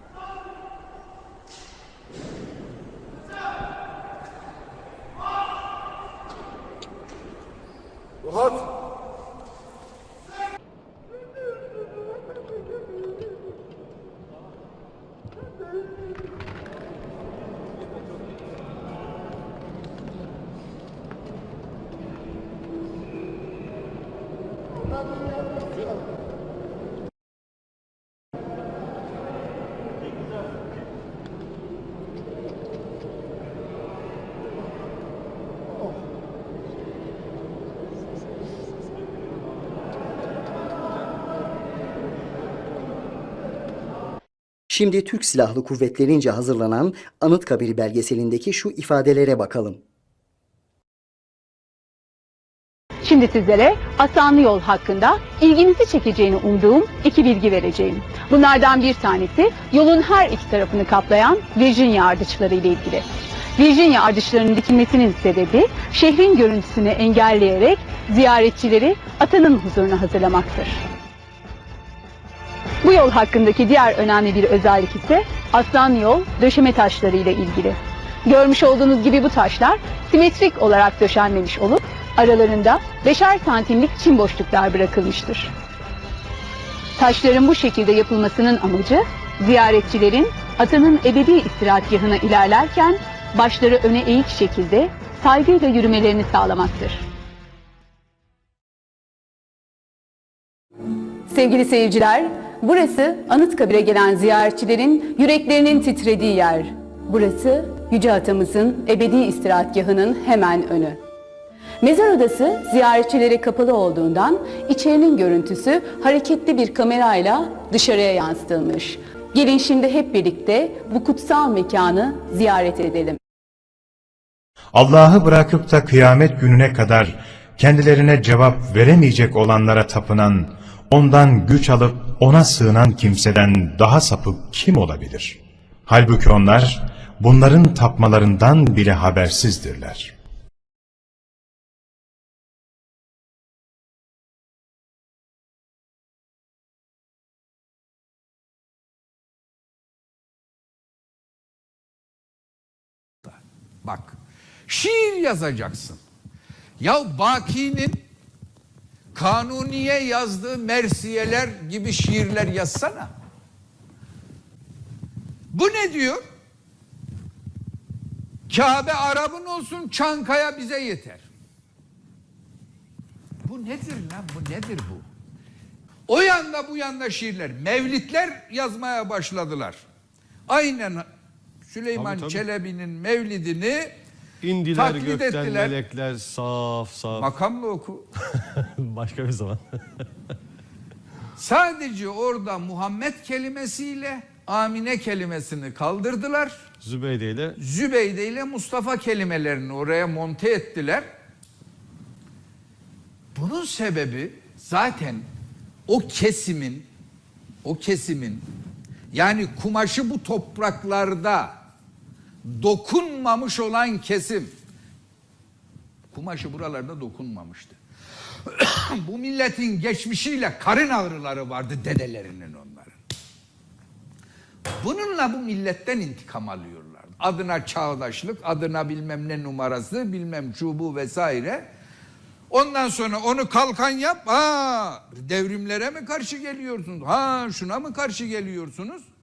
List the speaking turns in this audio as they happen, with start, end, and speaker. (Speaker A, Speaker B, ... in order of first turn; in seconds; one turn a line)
Speaker A: 44.7-49.8
Speaker B: 53.0-70.8
Speaker B: 72.8-85.5
Speaker B: 87.0-97.0
Speaker B: 101.3-111.0
Speaker B: 111.8-123.2
Speaker C: 124.7-140.1
Speaker D: 153.2-154.2
Speaker D: 154.7-156.0
Speaker D: 156.8-158.0
Speaker D: 159.1-163.1
Speaker D: 165.5-166.2
Speaker D: 168.5-171.2
Speaker D: 173.4-175.0
Speaker D: 176.1-179.8
Speaker D: 180.5-181.1
Speaker D: 181.7-183.9
Speaker E: 181.9-182.4
Speaker E: 184.4-187.3
Speaker D: 184.7-185.8
Speaker D: 187.1-188.1
Speaker E: 188.6-189.6
Speaker D: 191.4-196.6
Speaker E: 196.8-197.6
Speaker D: 197.6-201.1
Speaker D: 203.3-205.2
Speaker D: 205.9-206.9
Speaker D: 207.6-208.4
Speaker D: 209.1-211.5
Speaker D: 212.4-214.5
Speaker D: 216.1-217.8
Speaker D: 218.4-222.9
Speaker D: 224.8-231.7
Speaker D: 232.5-239.0